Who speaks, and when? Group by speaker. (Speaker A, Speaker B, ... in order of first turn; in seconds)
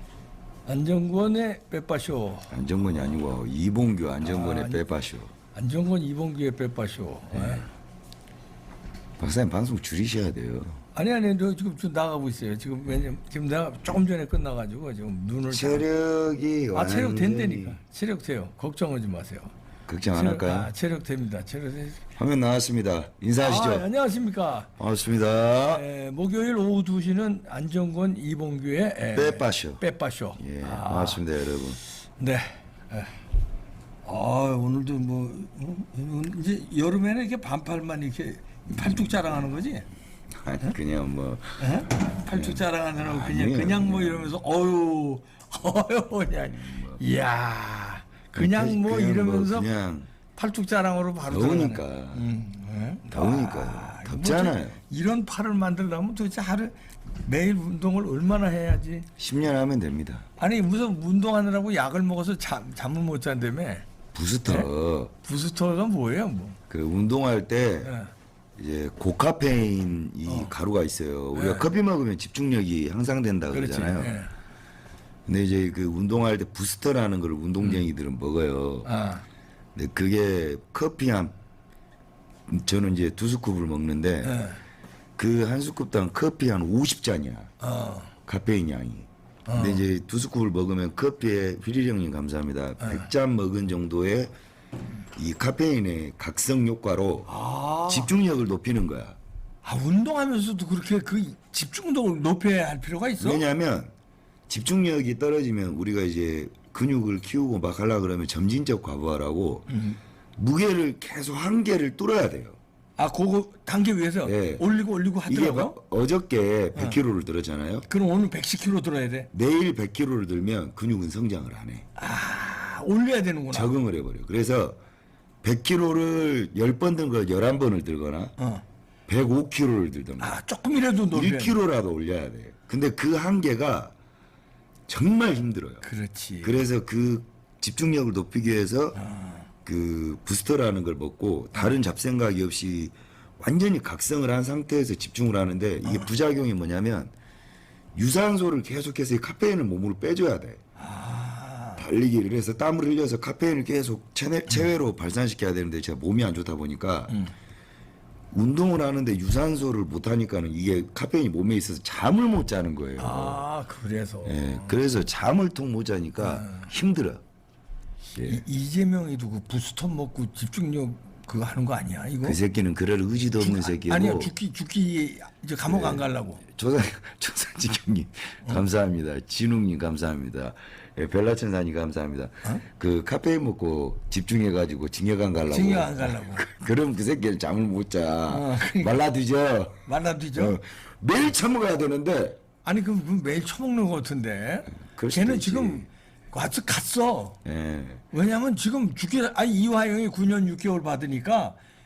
Speaker A: 0.7-2.5, 4.2-4.8, 5.5-7.7, 10.9-15.8, 16.7-19.5, 20.1-22.0, 23.4-24.7, 25.7-31.2, 32.2-33.2, 34.0-39.9, 41.6-49.7, 50.4-59.1, 60.4-63.9, 65.2-66.6, 67.8-68.1, 70.3-70.5, 71.3-71.7, 73.5-74.3, 78.9-79.2, 84.2-84.6, 87.6-88.1, 89.5-89.8, 92.8-93.1, 97.3-98.1, 99.6-103.5, 109.7-110.0, 113.0-115.8, 117.9-119.3, 122.0-123.7, 128.4-128.6, 130.2-131.6, 135.8-136.6, 139.0-139.4, 145.8-146.1, 150.8-151.8, 163.0-164.8, 166.2-166.7, 168.2-172.4, 173.4-176.4, 185.5-186.5, 188.3-189.0, 189.9-190.6, 192.6-197.4, 198.1-201.6
Speaker B: 2.5-5.3, 7.3-7.6, 9.2-10.8, 15.5-17.8, 19.9-20.7, 22.2-23.9, 24.8-25.9, 29.1-29.8, 30.4-31.8, 38.8-39.1, 40.3-44.4, 46.5-47.0, 48.4-50.1, 51.3-52.3, 53.1-54.8, 59.2-60.3, 64.1-65.1, 66.7-67.9, 68.6-74.2, 75.3-78.9, 79.8-81.3, 82.5-84.4, 85.2-87.5, 88.3-94.3, 95.2-97.3, 97.9-99.2, 103.2-103.9, 104.5-109.7, 110.4-112.6, 114.2-114.7, 115.3-117.9, 119.3-121.9, 123.5-124.8, 125.4-128.3, 129.1-130.3, 131.1-133.9, 134.9-135.9, 136.4-139.0, 139.7-147.1, 147.9-150.6, 151.8-157.2, 158.3-163.4, 164.2-167.2, 168.1-168.4, 172.2-174.3, 175.7-192.4, 194.8-195.9, 197.4-198.0